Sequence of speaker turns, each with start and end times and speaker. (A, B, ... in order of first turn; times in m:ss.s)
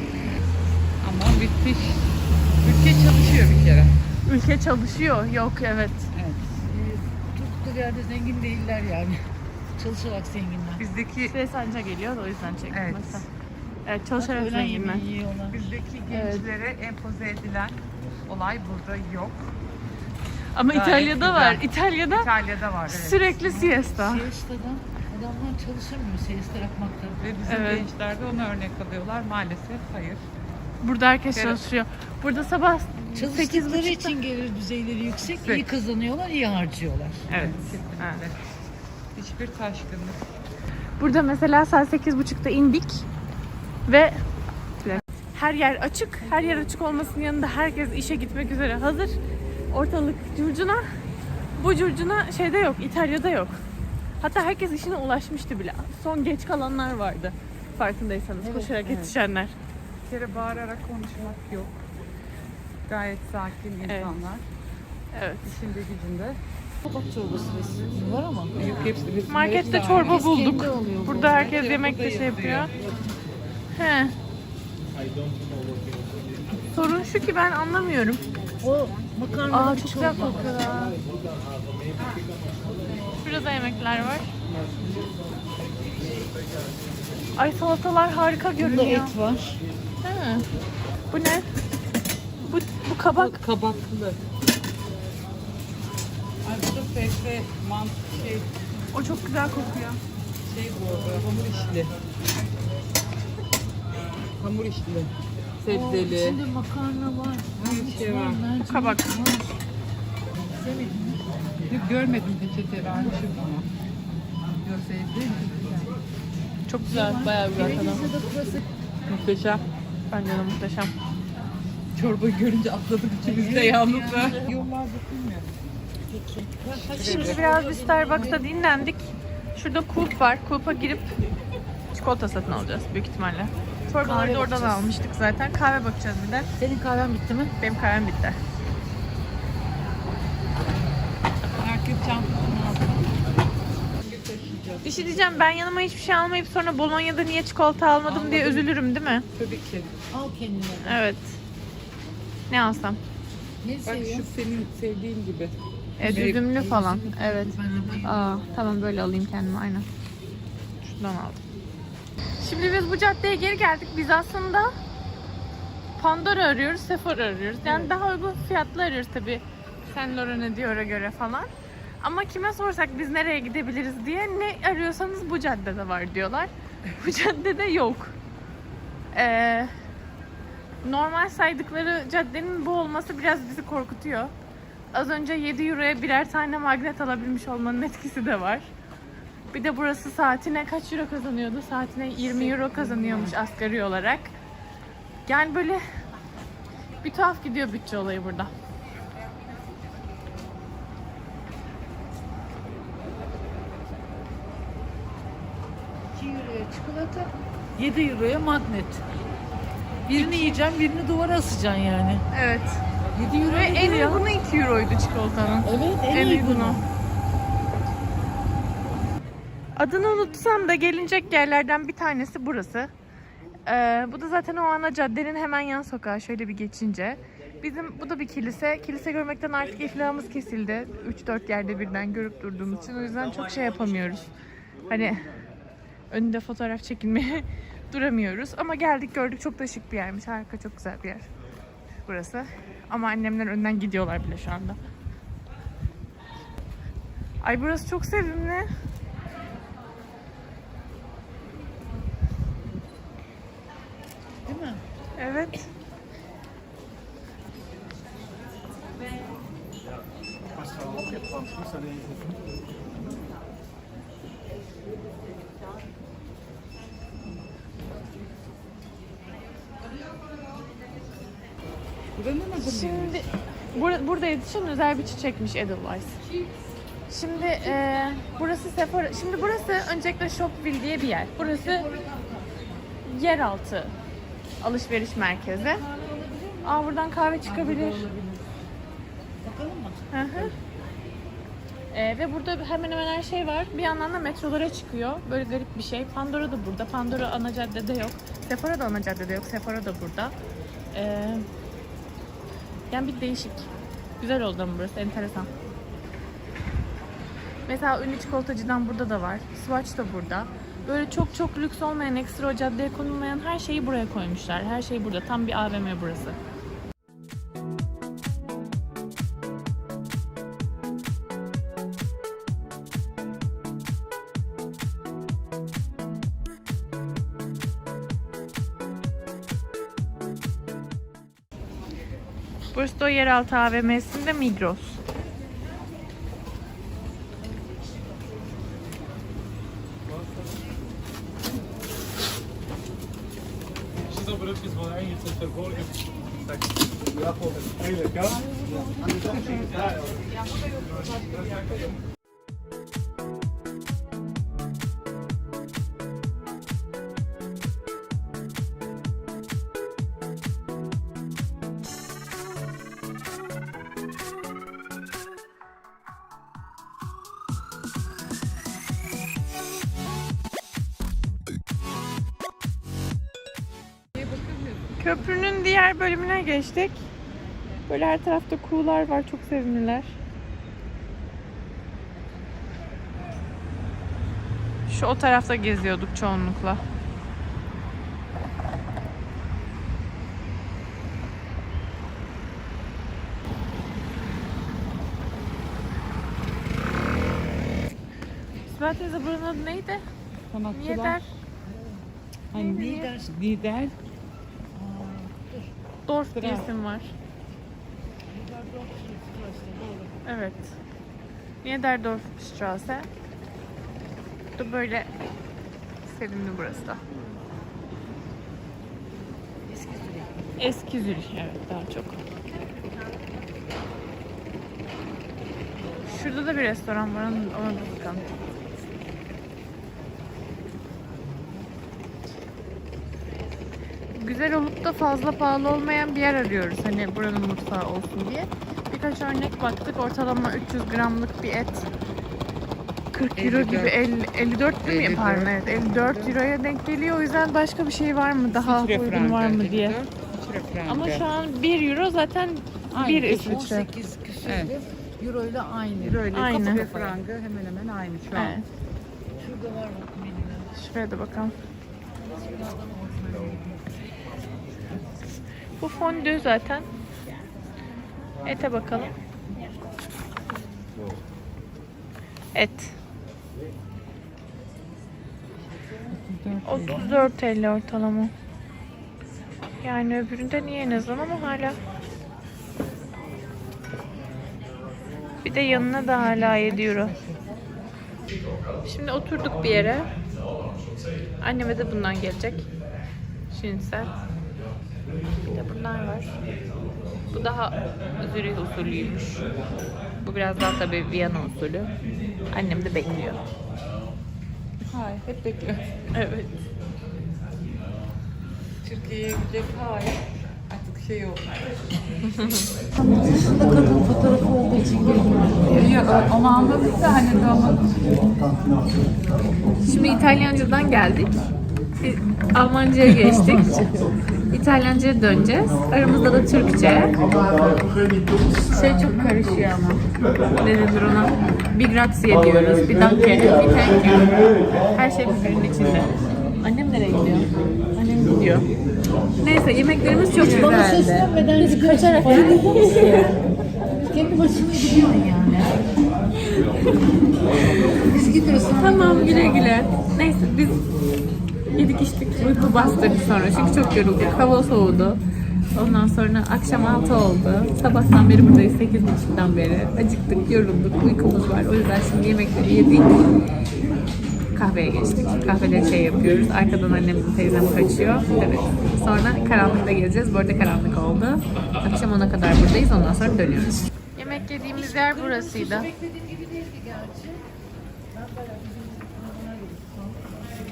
0:01.0-0:02.0 A
0:02.6-0:04.0 A
0:04.2-0:06.1 B
0:06.1-0:06.6 A
0:06.6-0:09.2 C
0:09.8-0:10.8 C
0:10.8-0:11.3 A
0:11.3-0:13.2 B
0:12.7-0:13.2 A
0:13.8-0:15.0 B
0:14.2-0:15.8 C
0:15.5-0:19.5 A
0:16.1-0:16.4 B
0:20.5-0:22.3 B
0:20.7-0:23.4 A
0:22.9-0:24.3 B
0:23.4-0:27.2 C
0:27.2-0:30.2 A
0:27.5-0:27.8 B
0:30.8-0:34.1 B
0:31.3-0:31.6 A
0:33.1-0:37.3 C
0:35.3-0:35.7 A
0:37.3-0:38.2 B
0:37.3-0:38.4 A
0:39.2-0:40.2 A
0:41.0-0:43.0 B
0:43.8-0:44.2 B
0:44.8-0:49.2 B
0:49.7-0:50.9 B
0:51.6-0:53.6 B
0:54.2-0:59.5 B
0:58.4-0:58.8 C
0:58.8-0:59.1 A
1:00.0-1:01.7 A
1:02.9-1:04.4 A
1:03.8-1:04.1 B
1:05.1-1:05.5 B
1:05.4-1:06.4 A
1:06.8-1:08.6 C
1:08.5-1:10.3 A
1:09.3-1:12.7 B
1:09.9-1:11.5 C
1:11.2-1:12.8 A
1:13.7-1:14.1 B
1:16.7-1:18.2 B
1:18.6-1:20.7 C
1:19.5-1:21.0 B
1:23.2-1:24.3 B
1:27.4-1:29.1 B
1:28.6-1:29.6 C
1:30.0-1:30.4 B
1:31.1-1:31.4 B
1:32.4-1:33.4 B
1:33.1-1:34.2 A
1:36.4-1:38.5 A
1:38.9-1:40.0 B
1:40.4-1:41.9 A
1:44.4-1:46.4 A
1:45.7-1:49.6 C
1:47.6-1:48.4 A
1:48.7-1:49.1 B
1:50.4-1:51.2 C
1:51.7-1:53.6 A
1:54.6-1:55.9 A
1:56.7-1:58.1 B
1:56.9-1:58.6 C
1:59.1-1:59.6 A
2:00.1-2:00.9 B
2:01.9-2:05.6 A
2:03.2-2:04.6 C
2:03.4-2:04.5 B
2:06.0-2:08.5 C
2:06.8-2:07.4 A
2:07.0-2:11.1 B
2:11.9-2:16.5 B
2:14.0-2:14.9 C
2:16.6-2:17.5 C
2:17.6-2:18.4 B
2:21.6-2:23.1 A
2:24.0-2:25.3 A
2:24.8-2:29.2 B
2:28.0-2:28.7 A
2:29.3-2:29.9 A
2:30.1-2:31.0 C
2:30.8-2:31.4 B
2:32.5-2:33.0 B
2:33.6-2:34.3 C
2:33.8-2:36.4 A
2:36.0-2:39.8 B
2:36.0-2:38.6 C
2:40.8-2:41.4 B
2:42.4-2:44.7 B
2:46.0-2:51.5 B
2:47.6-2:47.9 C
2:52.0-2:58.1 B
2:59.1-2:59.7 B
3:00.8-3:04.3 B
3:04.9-3:08.7 B
3:09.5-3:14.4 B
3:12.5-3:13.3 A
3:15.2-3:15.8 B
3:17.0-3:18.5 B
3:26.1-3:29.0 C
3:30.0-3:32.2 C
3:30.2-3:30.6 B
3:32.3-3:32.8 B
3:33.2-3:34.0 A
3:33.2-3:34.2 C
3:33.4-3:36.8 B
3:35.6-3:36.8 C
3:39.7-3:42.9 B
3:43.7-3:54.3 B
3:54.9-3:55.3 B
3:56.1-4:01.2 B
4:02.0-4:04.8 B
4:07.4-4:08.7 B
4:14.4-4:14.8 C
4:15.2-4:15.6 B
4:32.2-4:33.2 A
4:32.6-4:36.2 B
4:37.1-4:41.9 B
4:41.4-4:42.8 C
4:43.0-4:43.9 B
4:44.6-4:45.8 B
4:45.5-4:46.9 C
4:46.6-4:48.1 B
4:47.4-4:48.5 C
4:49.4-4:50.6 C
4:50.1-4:50.5 B
4:51.9-5:00.3 B
5:00.9-5:01.4 B
5:02.9-5:03.7 B
5:04.2-5:05.5 B
5:07.7-5:16.4 B
5:32.7-5:35.0 B
5:48.1-5:49.9 C
5:50.6-5:51.7 A
6:14.1-6:15.6 A
6:15.0-6:17.0 B
6:17.9-6:20.2 B
6:24.9-6:26.8 B
6:38.7-6:40.0 B
6:40.5-6:41.2 A
6:40.7-6:41.2 B
6:41.6-6:43.3 C
6:42.5-6:43.9 A
6:42.5-6:43.1 B
6:44.7-6:45.7 C
6:46.1-6:47.1 B
6:46.3-6:46.7 A
6:48.3-6:50.2 C
6:50.2-6:50.8 B
6:51.6-6:53.1 B
6:54.6-6:55.1 B
6:56.0-6:57.0 B
6:59.6-7:00.6 C
7:00.6-7:02.2 B
7:06.0-7:08.3 B
7:14.1-7:21.8 B
7:23.1-7:30.0 B
7:23.4-7:24.0 A
7:24.8-7:26.4 A
7:28.5-7:31.2 A
7:30.9-7:33.8 B
7:32.9-7:33.9 A
7:33.3-7:37.2 C
7:34.4-7:34.7 A
7:36.0-7:38.6 A
7:36.3-7:36.8 B
7:38.3-7:38.6 B
7:39.4-7:40.7 C
7:40.8-7:41.5 B
7:42.2-7:43.9 C
7:45.8-7:46.9 B
7:48.4-7:49.1 B
7:52.5-7:53.0 B
7:56.1-7:57.2 A
7:56.6-7:58.3 B
7:59.8-8:01.8 B
8:05.4-8:07.1 B
8:05.7-8:07.4 A
8:08.8-8:10.1 B
8:11.4-8:12.7 B
8:13.5-8:14.1 B
8:15.5-8:16.3 B
8:17.3-8:19.5 B
8:20.2-8:21.9 B
8:22.5-8:23.4 B
8:24.9-8:25.9 A
8:26.1-8:26.6 B
8:28.8-8:31.5 A
8:32.3-8:32.6 B
8:33.0-8:36.0 C
8:35.7-8:38.0 A
8:39.8-8:41.3 B
8:42.0-8:44.0 B
8:44.5-8:47.2 B
8:48.7-8:50.0 B
8:50.6-8:54.3 B
8:54.9-8:56.1 B
8:56.6-8:58.6 B
8:59.4-9:03.4 B
9:00.4-9:03.2 C
9:04.0-9:05.8 C
9:08.0-9:09.8 C
9:08.8-9:10.8 B
9:11.7-9:15.2 B
9:12.7-9:13.4 C
9:15.7-9:23.2 B
9:24.5-9:35.9 B
9:34.7-9:37.5 C
9:38.1-9:40.6 C